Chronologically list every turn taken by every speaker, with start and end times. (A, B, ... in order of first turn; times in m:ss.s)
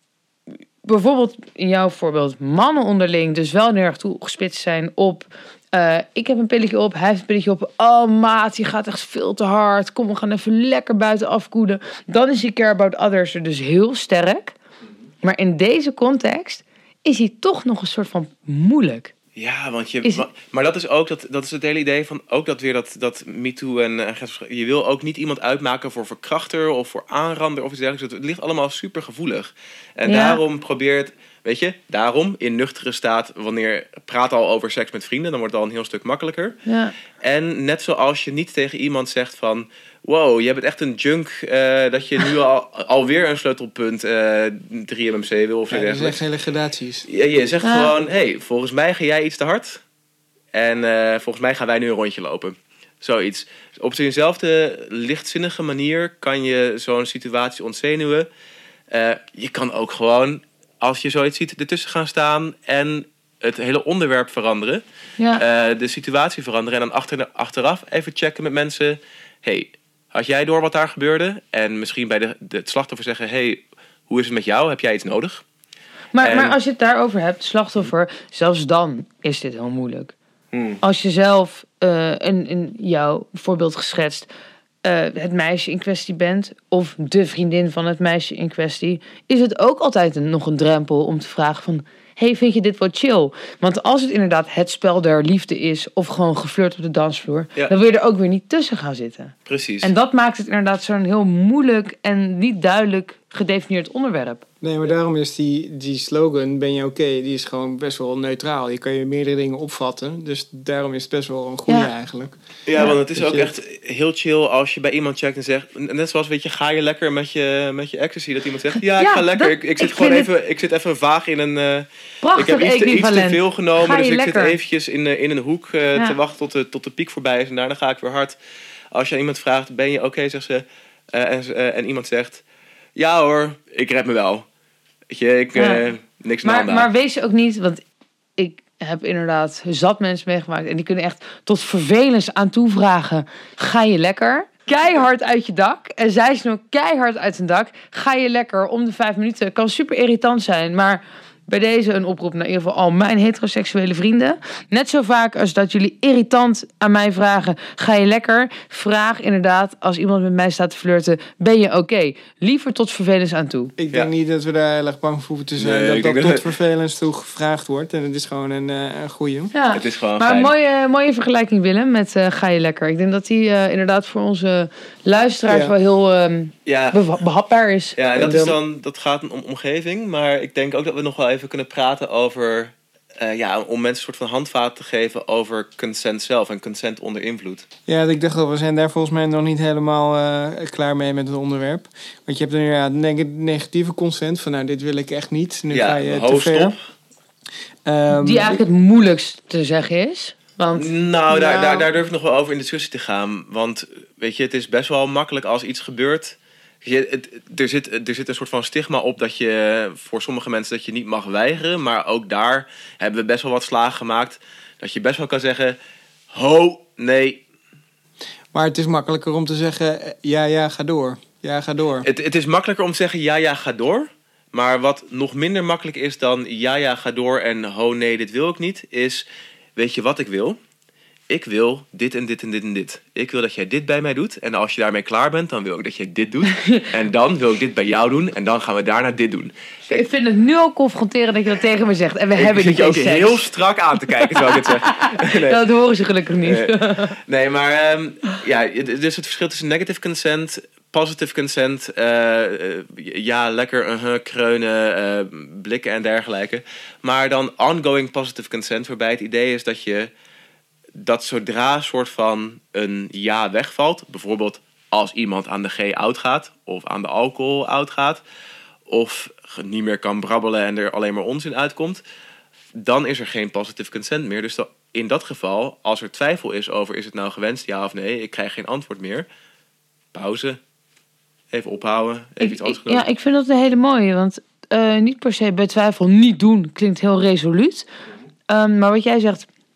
0:00.8-0:14.6 A
0:15.2-0:19.1 A
0:19.4-0:36.6 B
0:30.1-0:30.4 A
0:36.7-0:36.9 A
0:37.2-0:46.2 B
0:45.7-0:47.1 C
0:47.1-0:49.8 B
0:47.6-0:47.9 A
0:50.5-0:58.3 B
0:58.9-1:04.8 B
1:05.4-1:15.4 B
1:16.1-1:20.1 A
1:16.2-1:16.6 B
1:20.5-1:20.8 B
1:20.8-1:24.3 A
1:24.8-1:44.4 A
1:39.5-1:39.9 B
1:44.6-1:53.5 C
1:52.7-2:08.4 B
1:59.0-2:00.3 A
2:02.2-2:04.6 A
2:08.9-2:12.4 B
2:13.0-2:14.5 B
2:15.1-2:16.9 B
2:15.6-2:15.8 A
2:16.4-2:17.8 A
2:18.4-2:43.7 A
2:43.8-2:49.5 C
2:45.6-2:46.5 B
2:49.5-2:58.5 A
2:49.7-2:50.5 B
2:55.5-2:55.7 C
2:56.7-2:57.0 B
2:58.0-3:07.6 B
3:07.9-3:16.8 C
3:15.7-3:16.9 B
3:17.8-3:18.6 C
3:18.1-3:21.8 A
3:20.8-3:35.8 B
3:36.3-3:37.4 B
3:38.5-3:42.1 C
3:42.0-3:49.2 B
3:49.8-3:50.6 B
3:51.3-4:00.0 B
3:56.5-3:56.9 A
3:59.9-4:03.4 A
4:02.3-4:05.6 B
4:04.1-4:07.2 A
4:06.4-4:20.1 B
4:21.0-4:28.2 B
4:28.9-4:32.0 B
4:32.8-4:39.3 B
4:40.1-4:40.6 B
4:41.5-4:43.0 B
4:42.4-4:47.9 A
4:48.5-4:49.5 A